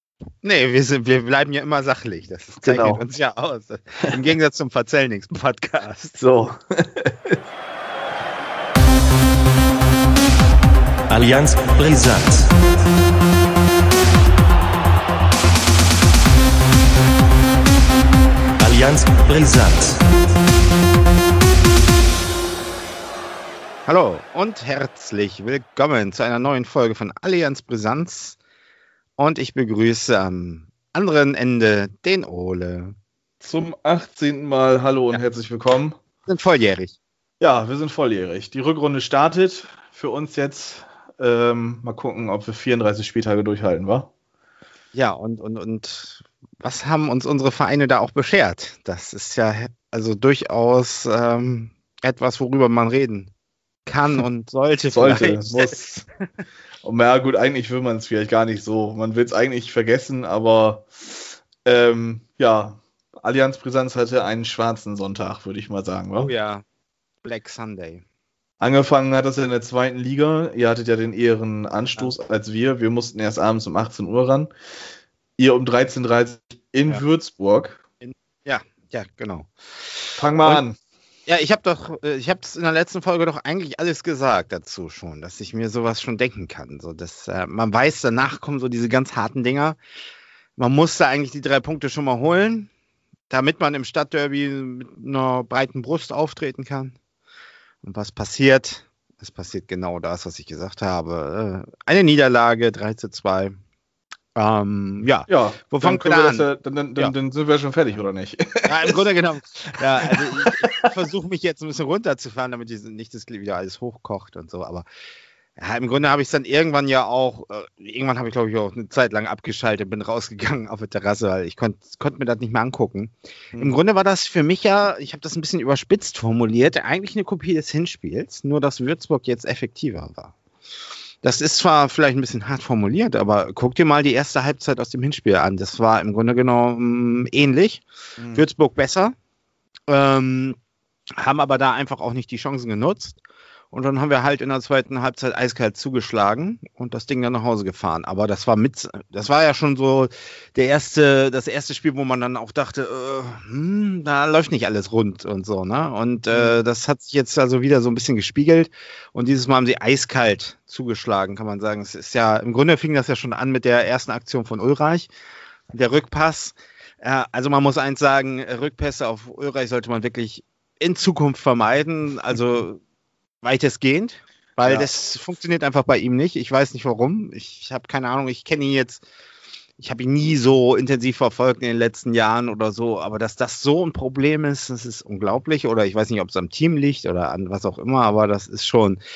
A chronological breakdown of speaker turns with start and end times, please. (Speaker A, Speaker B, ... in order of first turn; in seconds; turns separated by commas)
Speaker A: 0.4-6.2, Speaker B: 2.6-3.0, Speaker B: 6.2-7.3, Speaker C: 11.1-12.5, Speaker C: 18.6-20.0, Speaker A: 23.9-28.4, Speaker A: 29.2-32.9, Speaker B: 33.4-36.0, Speaker A: 36.3-37.0, Speaker B: 37.4-44.1, Speaker A: 44.9-53.3, Speaker A: 53.9-55.8, Speaker B: 54.9-56.0, Speaker B: 56.8-66.3, Speaker A: 66.2-66.6, Speaker A: 67.2-68.0, Speaker B: 68.6-74.5, Speaker B: 75.4-77.8, Speaker A: 78.0-80.6, Speaker B: 80.2-80.8, Speaker A: 81.3-89.8, Speaker A: 90.6-92.7, Speaker A: 93.3-97.0, Speaker A: 97.8-103.6, Speaker A: 104.3-106.5, Speaker B: 105.3-109.0, Speaker A: 108.6-114.8, Speaker B: 110.0-110.9, Speaker A: 115.6-130.3, Speaker A: 131.2-139.1, Speaker B: 138.2-138.4, Speaker A: 139.9-140.6, Speaker A: 141.2-143.2, Speaker A: 143.7-165.1, Speaker B: 156.3-156.6, Speaker A: 165.7-172.8, Speaker A: 173.4-179.0, Speaker B: 174.6-174.9, Speaker A: 179.8-189.0